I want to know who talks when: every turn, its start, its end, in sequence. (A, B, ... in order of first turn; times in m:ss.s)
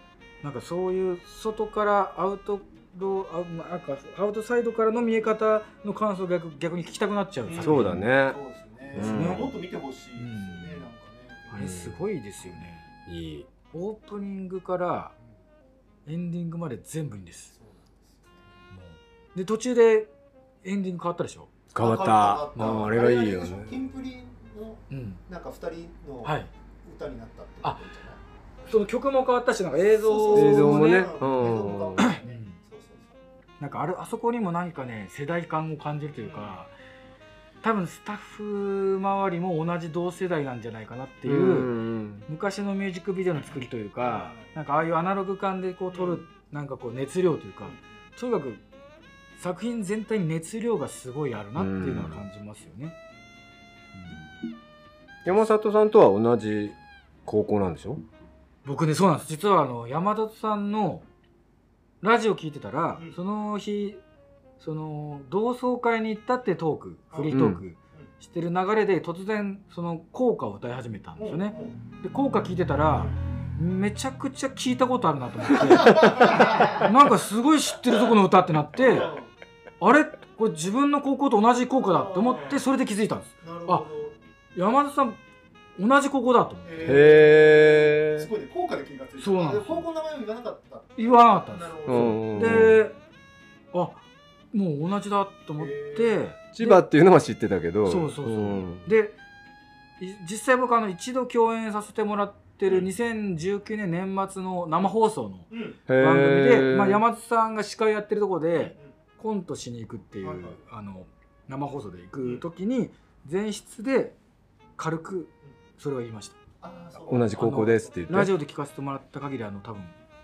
0:00.4-0:08.0 A
0:07.4-0:11.8 B
0:07.6-0:08.4 C
0:08.9-0:09.4 A
0:08.9-0:09.5 C
0:10.2-0:10.9 A
0:11.5-0:12.8 A
0:11.5-0:12.0 C
0:13.1-0:13.5 C
0:13.7-0:15.1 A
0:16.0-0:17.5 A
0:17.5-0:18.4 B
0:18.7-0:20.1 A
0:20.6-0:21.5 A
0:21.7-0:23.8 C
0:21.8-0:28.2 B
0:22.6-0:22.9 A
0:24.9-0:25.2 A
0:26.2-0:26.5 A
0:28.7-0:31.1 A
0:29.9-0:33.1 B
0:30.3-0:32.2 C
0:32.0-0:32.6 A
0:33.6-0:36.7 A
0:36.2-0:36.6 B
0:37.6-0:41.8 A
0:41.2-0:42.3 C
0:42.3-0:48.6 A
0:44.0-0:44.5 B
0:45.9-0:46.2 B
0:49.4-0:52.9 A
0:51.6-0:52.2 C
0:53.9-0:54.2 A
0:55.2-0:58.0 C
0:58.6-1:01.0 A
1:02.0-1:04.0 A
1:04.6-1:19.1 A
1:07.3-1:07.6 C
1:11.2-1:11.8 B
1:15.8-1:16.7 B
1:18.8-1:19.3 B
1:19.8-1:23.8 A
1:21.9-1:22.6 B
1:23.4-1:24.2 B
1:24.5-1:25.2 A
1:25.8-1:27.1 A
1:26.6-1:32.7 B
1:26.8-1:28.3 C
1:29.2-1:29.8 A
1:31.0-1:33.0 A
1:31.9-1:32.8 C
1:33.7-1:36.8 A
1:35.6-1:36.2 B
1:36.5-1:38.9 C
1:37.8-1:39.2 A
1:40.0-1:54.2 A
1:45.5-1:45.8 B
1:45.9-1:47.0 C
1:48.6-1:48.8 B
1:50.2-1:50.6 B
1:54.8-1:56.4 A
1:56.6-1:58.0 B
1:57.1-1:58.3 C
1:57.3-1:59.9 A